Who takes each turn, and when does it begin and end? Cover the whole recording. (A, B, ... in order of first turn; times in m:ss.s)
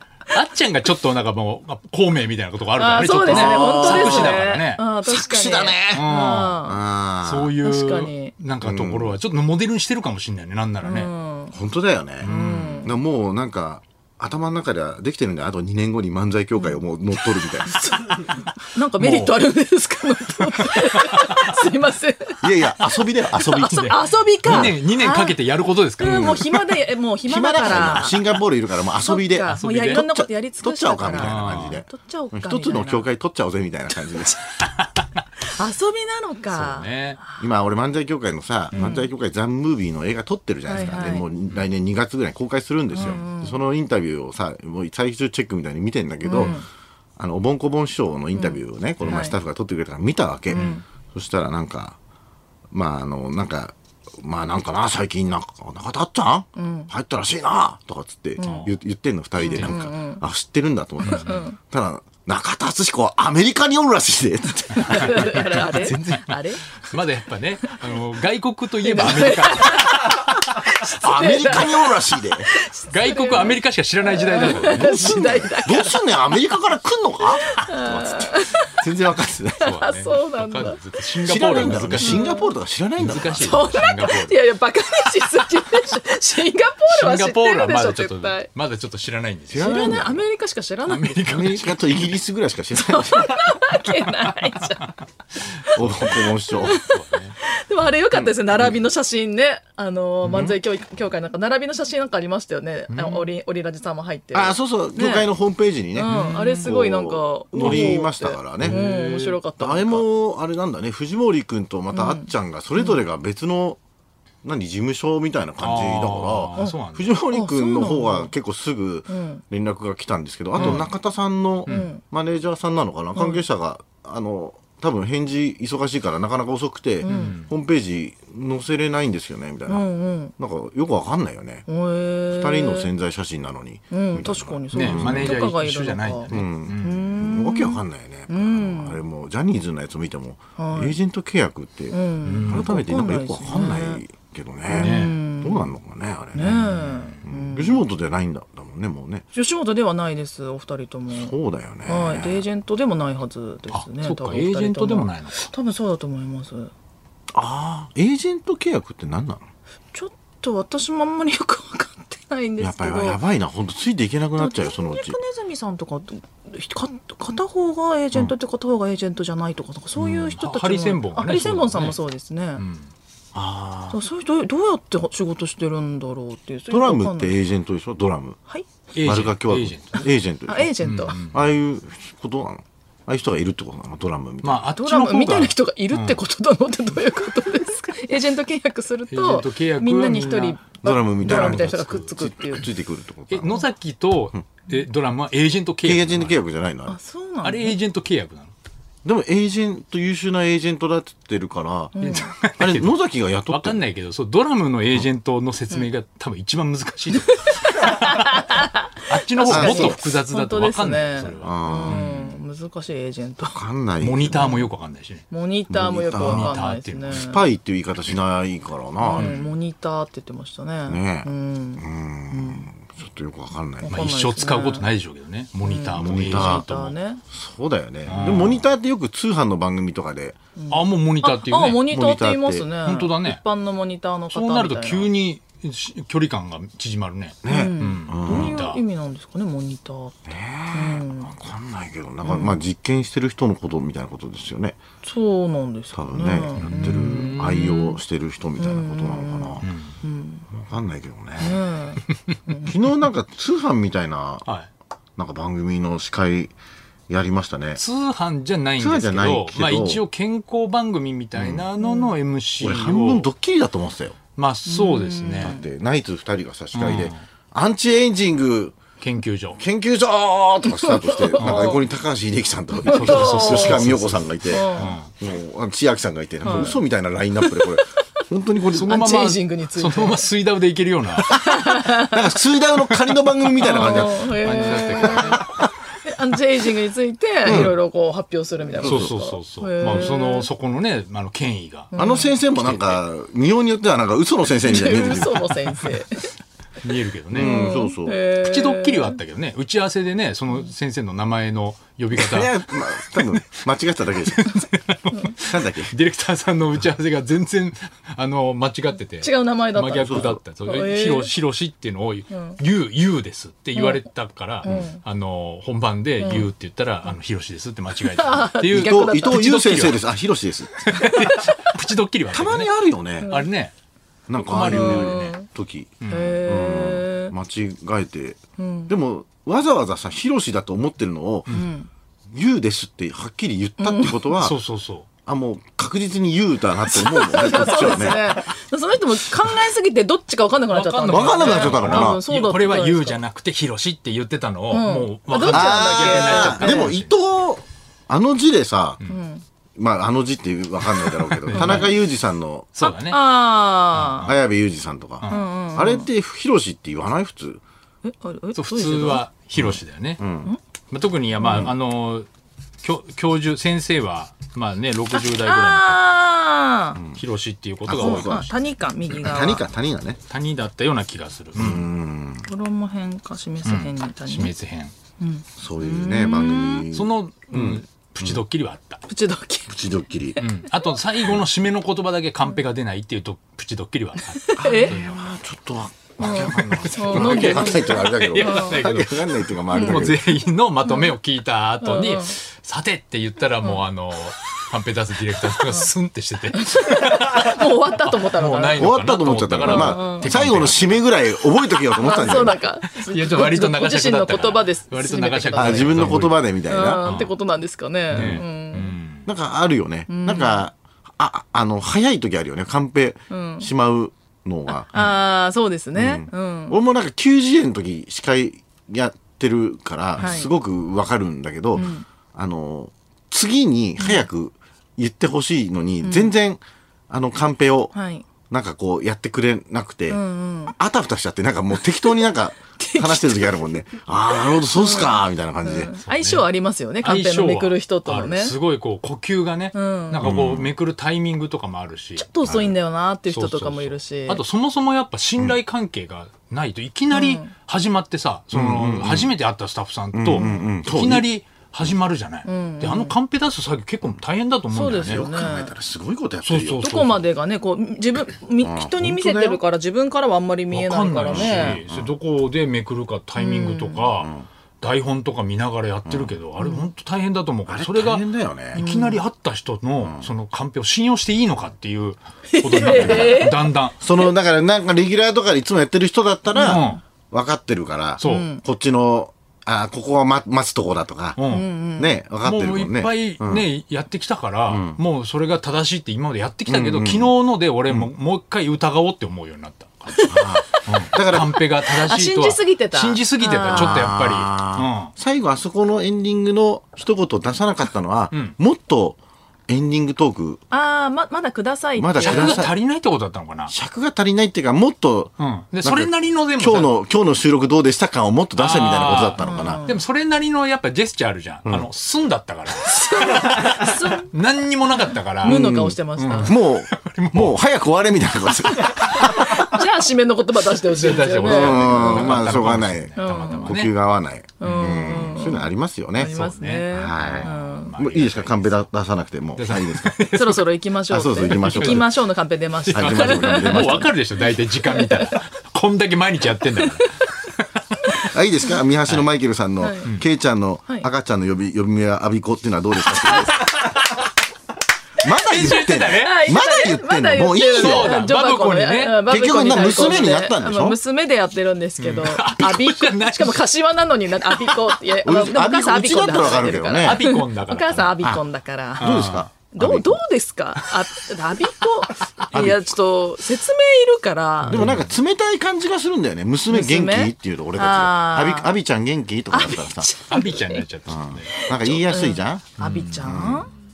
0:00.3-0:04.8 A
0:02.8-0:06.8 B
0:03.2-0:04.4 C
0:05.0-0:06.1 C
0:05.9-0:06.6 A
0:06.6-0:07.6 C
0:07.2-0:11.1 A
0:07.6-0:08.3 B
0:08.6-0:09.2 C
0:10.8-0:11.5 B
0:11.5-0:17.8 C
0:12.2-0:12.8 A
0:12.2-0:12.9 B
0:17.6-0:22.4 B
0:19.0-0:19.4 A
0:20.6-0:21.6 A
0:22.4-0:24.7 C
0:22.8-0:26.4 A
0:23.4-0:25.4 B
0:26.0-0:28.3 B
0:26.0-0:26.5 C
0:27.2-0:34.4 C
0:29.0-0:33.1 B
0:29.5-0:30.0 A
0:31.1-0:31.8 A
0:34.1-0:34.4 B
0:35.4-0:37.4 B
0:36.5-0:37.2 A
0:37.4-0:46.6 C
0:38.7-0:39.1 B
0:40.6-0:41.2 B
0:42.9-0:43.6 B
0:46.2-0:46.6 B
0:47.2-0:52.0 C
0:48.3-0:49.4 B
0:50.5-0:50.8 B
0:52.7-1:05.6 C
0:56.6-0:56.9 B
0:58.4-0:58.7 B
0:58.4-0:58.7 A
0:59.4-1:00.2 B
0:59.5-0:59.7 A
1:01.0-1:01.6 B
1:04.8-1:06.6 B
1:05.0-1:10.4 A
1:07.6-1:08.0 B
1:08.8-1:11.9 B
1:11.0-1:12.5 C
1:12.5-1:16.0 B
1:12.9-1:15.4 A
1:14.4-1:19.7 C
1:17.5-1:18.7 B
1:19.6-1:20.8 B
1:19.6-1:22.3 A
1:21.2-1:23.6 C
1:21.6-1:22.5 B
1:23.0-1:24.4 A
1:23.4-1:28.5 B
1:26.9-1:30.0 A
1:29.5-1:30.2 C
1:29.6-1:31.3 B
1:30.9-1:32.0 A
1:31.2-1:33.4 C
1:32.7-1:35.0 B
1:35.6-1:37.4 A
1:35.7-1:36.8 C
1:36.5-1:45.3 B
1:38.1-1:38.7 C
1:40.2-1:40.5 A
1:42.9-1:43.3 A
1:44.3-1:48.8 C
1:46.0-1:46.7 A
1:46.0-1:50.0 B
1:47.6-1:48.0 A
1:48.6-1:49.4 A
1:49.6-1:53.8 C
1:51.9-1:53.0 B
1:54.4-2:09.8 C
1:55.6-1:57.1 A
1:57.3-1:58.3 B
1:59.1-1:59.4 B
2:00.6-2:00.8 B
2:00.6-2:00.9 A
2:01.6-2:02.0 B
2:03.2-2:03.4 B
2:07.0-2:07.3 B
2:07.1-2:07.5 A
2:09.7-2:10.3 B
2:10.4-2:11.6 C
2:11.7-2:12.9 B
2:12.3-2:15.4 C
2:13.9-2:19.0 B
2:14.7-2:17.0 A
2:16.3-2:29.2 C
2:20.6-2:21.0 B
2:21.9-2:24.0 B
2:22.2-2:22.7 A
2:24.7-2:25.7 B
2:24.7-2:25.2 A
2:26.3-2:27.8 B
2:26.5-2:27.2 A
2:29.3-2:31.3 B
2:31.1-2:32.4 C
2:31.8-2:36.7 B
2:33.7-2:35.5 A
2:37.3-2:39.4 C
2:39.9-2:43.2 B
2:42.6-2:45.2 C
2:44.4-2:52.6 B
2:50.0-2:52.0 A
2:52.6-2:52.9 A
2:53.3-2:54.0 C
2:53.9-2:57.4 B
2:56.7-2:58.4 C
2:58.9-3:00.0 A
2:59.0-3:04.7 C
3:00.5-3:01.2 B
3:00.8-3:01.4 A
3:04.4-3:06.2 A
3:04.8-3:12.6 B
3:09.1-3:12.1 A
3:10.8-3:13.6 C
3:13.3-3:16.4 A
3:15.8-3:17.0 C
3:16.9-3:17.8 B
3:17.4-3:18.5 A
3:19.0-3:23.8 C
3:21.9-3:22.4 B
3:22.0-3:22.9 A
3:23.5-3:28.5 A
3:27.5-3:33.6 B
3:29.1-3:32.4 A
3:29.4-3:30.0 C
3:31.4-3:32.0 C
3:33.4-3:34.7 C
3:34.0-3:35.2 A
3:35.3-3:37.5 B
3:35.7-3:36.6 C
3:36.1-3:37.2 A
3:37.1-3:39.4 C
3:39.0-3:42.7 B
3:39.2-3:39.4 A
3:40.9-3:43.9 C
3:43.8-3:44.9 B
3:43.9-3:46.9 A
3:45.6-3:47.2 B
3:46.0-3:46.6 C
3:47.3-3:50.4 C
3:48.0-3:48.6 A
3:50.6-3:55.1 B
3:50.7-3:51.8 A
3:51.8-3:52.7 C
3:52.8-3:53.4 A
3:54.3-3:58.8 A
3:57.4-3:58.6 C
3:57.5-4:00.2 B
4:00.2-4:04.8 C
4:00.7-4:01.3 B
4:02.2-4:02.6 B
4:05.0-4:08.0 B
4:05.9-4:09.7 C
4:06.6-4:07.7 A
4:08.6-4:10.4 B
4:09.6-4:09.9 A
4:10.5-4:11.6 C
4:11.4-4:12.7 B
4:12.6-4:14.4 C
4:15.2-4:16.5 C
4:17.1-4:17.8 C
4:17.8-4:23.3 A
4:18.8-4:20.0 C
4:21.3-4:21.7 C
4:21.8-4:22.1 B
4:22.6-4:24.2 C
4:24.4-4:25.6 A
4:24.6-4:25.6 B
4:25.4-4:28.8 C
4:26.7-4:27.2 A
4:29.0-4:29.6 A
4:29.6-4:39.0 C
4:30.7-4:31.8 B
4:31.4-4:31.7 A
4:32.8-4:35.1 A
4:32.8-4:33.9 B
4:34.5-4:35.0 B
4:36.4-4:36.8 B
4:36.5-4:36.7 A
4:37.4-4:37.8 B
4:38.7-4:41.3 A
4:38.9-4:40.3 B
4:41.2-4:42.2 B
4:41.4-4:45.5 C
4:43.6-4:50.5 B
4:43.7-4:45.5 A
4:47.4-4:47.7 C
4:47.5-4:47.7 A
4:48.8-4:49.1 C
4:48.8-4:51.9 A
4:51.9-4:52.3 B
4:51.9-4:55.5 C
4:52.5-4:53.0 A
4:54.6-4:56.3 B
4:56.8-5:02.5 A
4:57.3-4:58.2 C
4:57.3-4:59.2 B
5:02.1-5:04.6 C
5:03.2-5:03.6 A
5:04.2-5:20.0 A
5:05.4-5:05.9 C
5:09.2-5:11.3 B
5:10.0-5:10.4 C
5:12.3-5:12.6 B
5:13.7-5:14.0 B
5:14.6-5:15.0 B
5:16.2-5:16.5 B
5:18.0-5:19.5 B
5:18.6-5:20.9 C
5:20.8-5:22.7 A
5:20.9-5:21.7 B
5:22.3-5:23.3 C
5:23.2-5:23.5 B
5:23.2-5:23.7 A
5:24.3-5:31.5 C
5:24.4-5:25.3 A
5:24.5-5:25.5 B
5:26.0-5:26.4 A
5:26.1-5:27.3 B
5:28.6-5:28.9 B
5:31.5-5:31.9 B
5:32.3-5:34.6 C
5:33.8-5:34.3 B
5:34.4-5:35.1 A
5:35.2-5:38.4 C
5:36.9-5:43.2 B
5:40.7-5:47.1 A
5:41.0-5:42.2 C
5:44.7-5:46.9 B
5:45.5-5:49.0 C
5:49.1-5:49.4 B
5:49.8-5:52.7 C
5:51.3-5:52.0 A
5:51.5-5:51.9 B
5:52.7-5:53.2 A
5:52.8-5:54.3 B
5:53.9-5:54.4 A
5:54.2-5:57.6 C
5:55.3-5:56.1 B
5:58.0-5:59.2 B
5:58.5-6:00.2 A
5:59.6-6:00.5 C
6:00.9-6:02.3 A
6:01.4-6:01.7 B
6:01.4-6:01.7 C
6:02.8-6:06.0 A
6:05.1-6:07.0 B
6:07.1-6:08.4 A
6:07.8-6:08.5 C
6:08.0-6:09.6 B
6:09.1-6:10.2 C
6:10.3-6:11.9 A
6:11.5-6:12.5 C
6:12.4-6:14.5 B
6:13.6-6:14.9 A
6:15.2-6:16.9 B
6:15.6-6:18.4 C
6:16.9-6:19.0 A
6:19.1-6:20.9 B
6:19.7-6:20.4 C
6:20.4-6:25.2 A
6:24.4-6:25.0 B
6:24.6-6:30.2 C
6:26.2-6:28.8 B
6:26.2-6:41.0 A
6:29.7-6:30.1 B
6:30.8-6:31.1 B
6:31.8-6:32.3 B
6:35.6-6:35.9 B
6:36.5-6:38.9 B
6:38.8-6:42.6 C
6:39.6-6:40.3 B
6:42.0-6:48.9 B
6:42.9-6:46.4 A
6:45.5-6:47.1 C
6:47.0-6:47.3 A
6:48.1-6:49.2 A
6:48.1-6:48.4 C
6:49.2-6:54.9 C
6:50.1-6:50.6 B
6:53.3-6:53.7 B
6:54.7-6:56.8 B
6:56.0-7:07.9 C
7:00.2-7:00.5 B
7:01.7-7:02.0 B
7:04.0-7:04.3 B
7:06.0-7:06.3 B
7:07.9-7:08.2 B
7:08.5-7:15.9 C
7:10.1-7:10.7 B
7:12.8-7:13.6 B
7:14.3-7:18.6 B
7:16.0-7:16.4 A
7:17.0-7:22.5 A
7:19.7-7:20.3 B
7:20.2-7:20.7 C
7:22.2-7:24.4 B
7:23.3-7:35.2 A
7:27.1-7:27.5 B
7:28.5-7:29.3 C
7:30.1-7:31.3 C
7:30.4-7:30.6 B
7:32.4-7:33.1 B
7:34.7-7:35.7 B
7:35.0-7:36.9 C
7:36.4-7:37.2 A
7:36.8-7:41.8 B
7:38.6-7:39.6 C
7:40.7-7:54.0 A
7:41.2-7:42.1 C
7:43.4-7:44.1 B
7:44.2-7:44.4 C
7:46.0-7:46.4 C
7:46.6-7:46.8 B
7:47.7-7:48.8 C
7:48.7-7:49.2 B
7:52.5-7:53.6 B
7:52.8-8:01.4 C
7:56.5-7:57.0 B
7:56.6-7:57.0 A
7:58.2-7:58.5 A
7:58.2-7:58.6 B
8:01.4-8:01.7 A
8:01.5-8:02.2 B
8:02.0-8:03.7 C
8:02.4-8:10.2 A
8:04.7-8:05.0 C
8:06.7-8:07.3 C
8:10.1-8:10.6 B
8:10.3-8:11.6 C
8:10.8-8:15.1 A
8:11.8-8:14.1 B
8:13.6-8:20.6 C
8:20.7-8:22.7 B
8:22.0-8:22.7 C
8:22.2-8:23.7 A
8:23.7-8:29.8 C
8:25.4-8:26.9 A
8:28.6-8:35.6 A
8:29.4-8:30.0 B
8:32.8-8:34.3 B
8:35.4-8:36.5 B
8:35.4-8:39.6 C
8:36.2-8:37.6 A
8:38.8-8:42.4 B
8:40.9-8:43.9 A
8:41.4-8:46.3 C
8:43.2-8:43.8 B
8:44.6-8:47.9 B
8:44.6-8:45.5 A
8:46.2-8:48.9 A
8:46.9-8:50.2 C
8:49.6-8:50.7 A
8:50.3-8:54.0 B
8:51.1-8:52.1 C
8:51.4-8:52.2 A
8:52.8-8:57.1 A
8:52.9-8:54.1 C
8:54.8-8:55.3 B
8:56.6-8:57.2 B
8:58.2-9:03.6 C
8:59.8-9:00.1 B
9:03.6-9:04.1 A
9:05.2-9:08.3 C
9:05.3-9:06.4 A
9:06.1-9:25.0 B
9:07.6-9:09.2 A
9:09.2-9:11.0 C
9:09.8-9:10.3 A
9:12.0-9:13.7 A
9:14.4-9:15.0 A
9:15.2-9:17.2 C
9:16.9-9:18.3 A
9:19.0-9:19.5 A
9:19.0-9:20.2 C
9:22.4-9:22.8 A
9:24.6-9:30.1 C
9:24.7-9:25.1 A
9:26.7-9:28.7 B
9:29.5-9:30.8 B
9:30.3-9:31.5 A
9:31.1-9:33.7 C
9:31.5-9:33.7 B
9:32.8-9:33.6 A